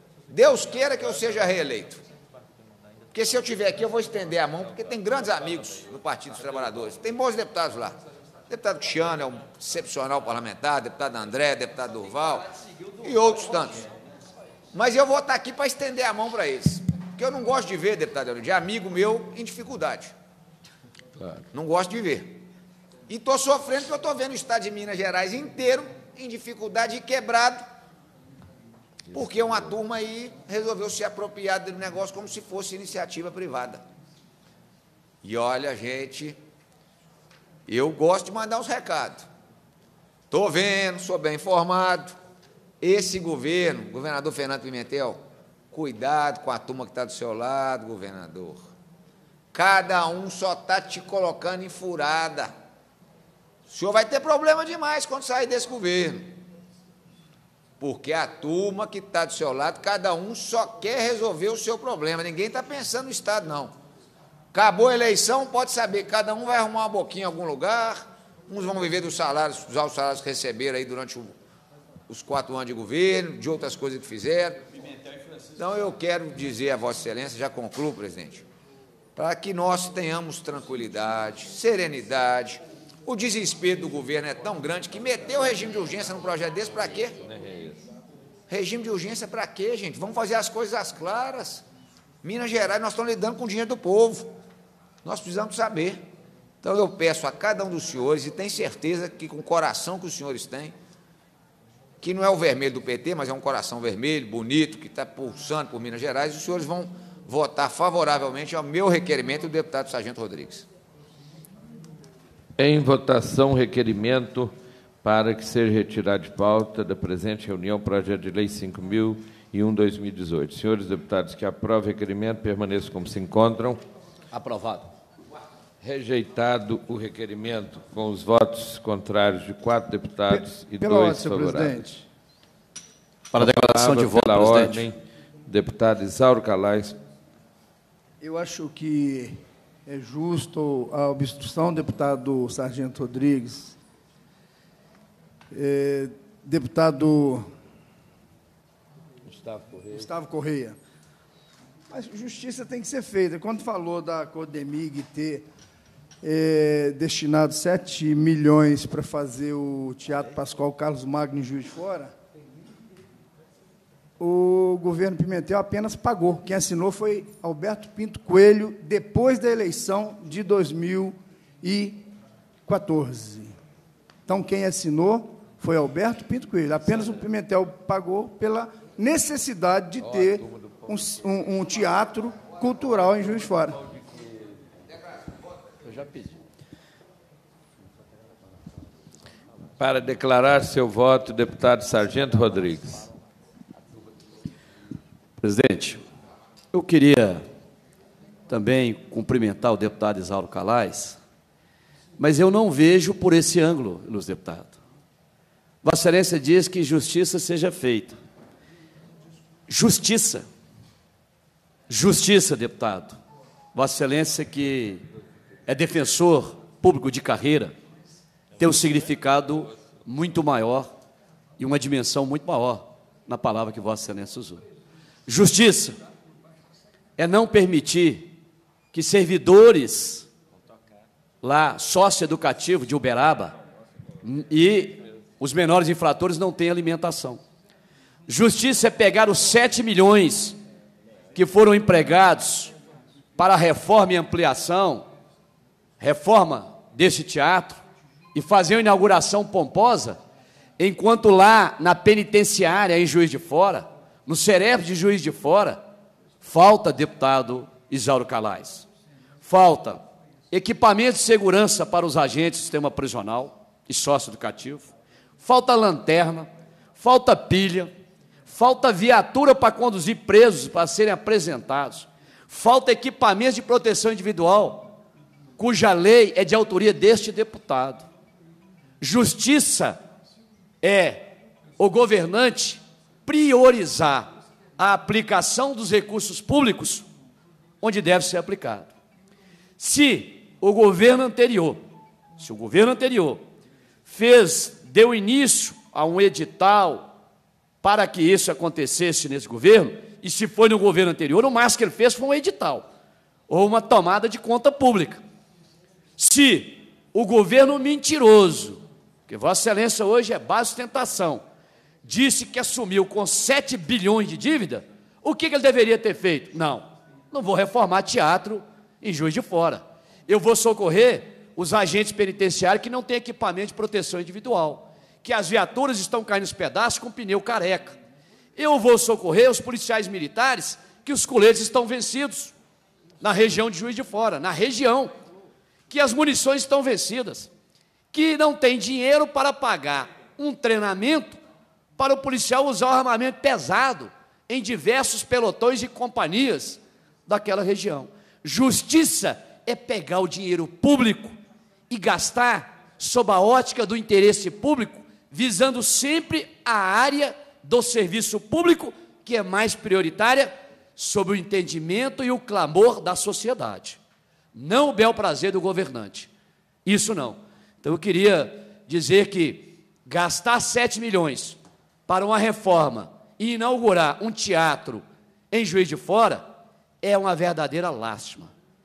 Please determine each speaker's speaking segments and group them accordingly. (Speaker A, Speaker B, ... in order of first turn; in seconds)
Speaker A: 0.3-2.0, 3.1-8.0, 8.5-13.9, 14.7-20.1, 21.5-22.4, 23.1-27.7, 29.1-33.8, 35.2-36.4, 37.7-39.3, 40.3-42.1, 42.8-48.6, 49.5-52.5, 53.7-56.4, 57.8-63.8, 64.5-71.3, 72.1-74.6, 75.6-78.5, 79.2-87.2, 88.5-91.6, 92.2-94.3, 95.0-96.0, 96.6-100.7, 102.0-110.7
Speaker B: 87.2-87.8, 112.6-114.5, 115.0-123.8, 125.8-131.9, 133.3-137.0, 149.3-150.1, 189.8-193.0
Speaker C: 124.3-124.9, 133.3-134.8, 185.8-186.4, 195.4-196.0, 196.7-197.4, 198.5-201.2, 202.2-204.8, 205.8-208.2, 209.7-210.4, 211.9-213.2, 213.7-215.0, 215.7-217.7, 218.6-220.9, 221.6-224.6, 225.3-225.9, 227.2-228.3, 228.9-230.3, 231.4-233.6, 234.2-237.4, 238.3-240.6, 241.3-242.7, 243.4-245.1, 246.0-247.8, 248.3-250.2, 250.8-255.8, 256.4-258.9, 259.4-264.9, 265.4-267.9, 268.5-274.9, 275.6-278.1, 279.0-280.0, 280.8-287.0, 287.8-288.9, 289.8-291.8, 292.4-293.4, 294.1-297.1, 297.8-302.9, 303.5-305.2, 306.2-311.4, 312.0-328.0, 328.6-332.5, 333.2-335.1, 335.9-337.5, 338.1-341.4, 342.0-351.3, 351.9-364.0, 364.5-366.3, 366.8-376.5, 377.0-378.5
Speaker D: 130.3-132.0, 138.2-143.8, 145.5-147.4, 149.9-150.8, 151.9-155.4, 156.2-162.1, 164.2-172.1, 172.7-173.6, 174.2-183.8